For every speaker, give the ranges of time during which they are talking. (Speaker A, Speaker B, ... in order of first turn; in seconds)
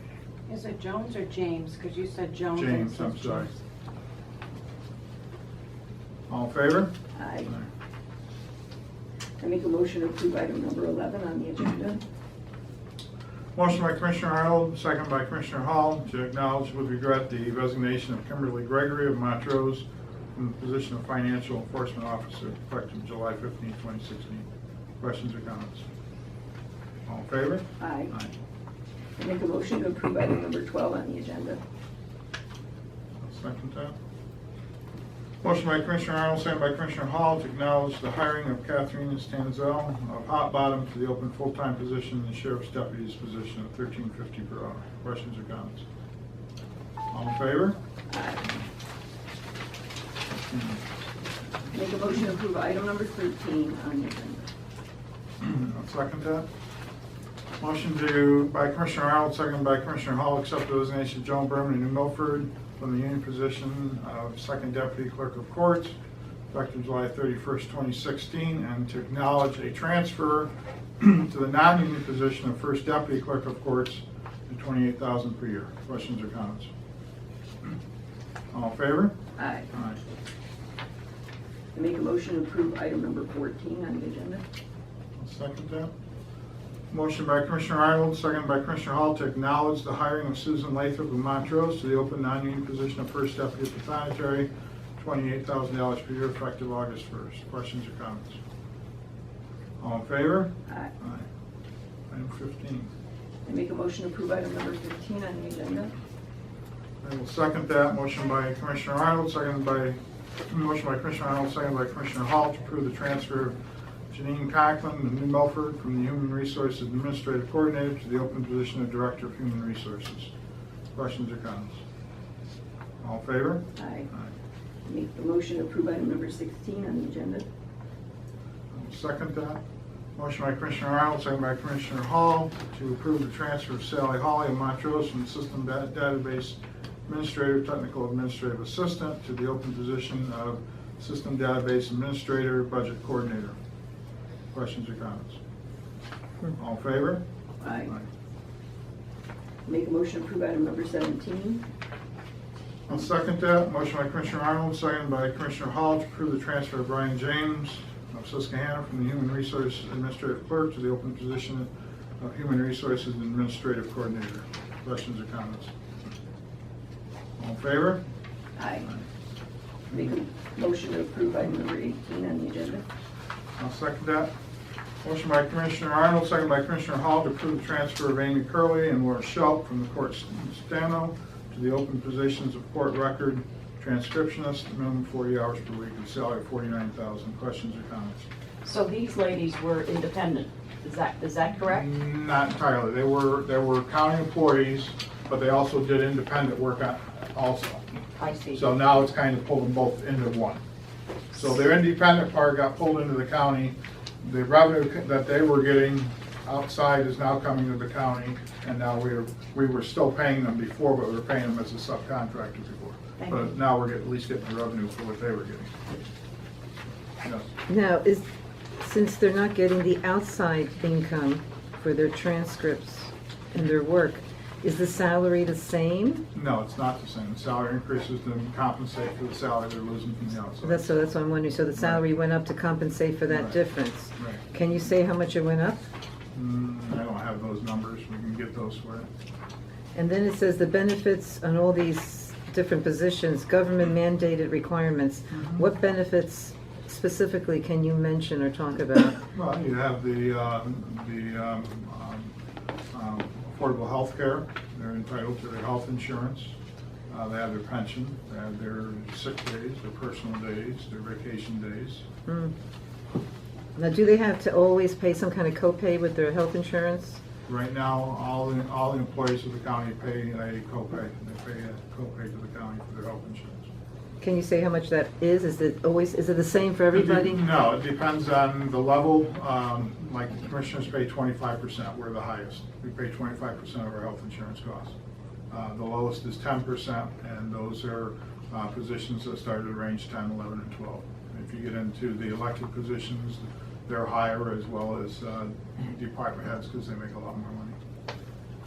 Speaker A: 0.5-3.5
Speaker B: 2.5-3.5, 6.3-6.9, 13.6-19.9, 20.4-24.5, 25.0-25.9, 27.1-28.3, 33.2-34.0, 35.4-45.9, 47.1-47.8, 50.5-50.8, 55.4-56.5, 57.6-66.0, 66.5-76.7, 78.5-79.2, 79.7-80.0, 85.2-85.9, 86.9-98.4, 99.8-101.3, 102.1-102.9, 107.0-113.6, 114.1-120.3, 121.0-121.8, 123.0-124.3, 128.7-129.6, 130.2-143.6, 144.5-145.4, 146.5-147.2, 152.9-161.7, 162.2-165.7, 167.4-168.0, 173.6-174.3, 175.0-188.3, 191.6-197.8, 198.5-200.6, 201.3-215.8, 226.3-230.9, 231.8-232.0, 233.3-233.6, 234.2-234.4, 236.3-239.1, 245.3-245.6, 249.3-252.3, 252.9-256.6, 257.1-262.1, 267.5-273.7, 276.9-285.0, 285.5-297.8
Speaker C: 7.2-7.5, 9.4-12.0, 27.8-28.1, 29.2-31.6, 48.1-48.5, 51.7-54.5, 79.4-79.7, 81.7-84.4, 103.5-105.9, 123.8-124.1, 124.9-127.5, 147.6-147.9, 149.7-151.6, 168.6-168.9, 169.9-172.8
Speaker D: 188.6-191.8, 198.2-198.6
Speaker E: 217.7-218.3, 218.8-226.2, 230.6-235.8, 239.9-249.2, 262.3-262.5, 263.8-267.2, 274.2-277.4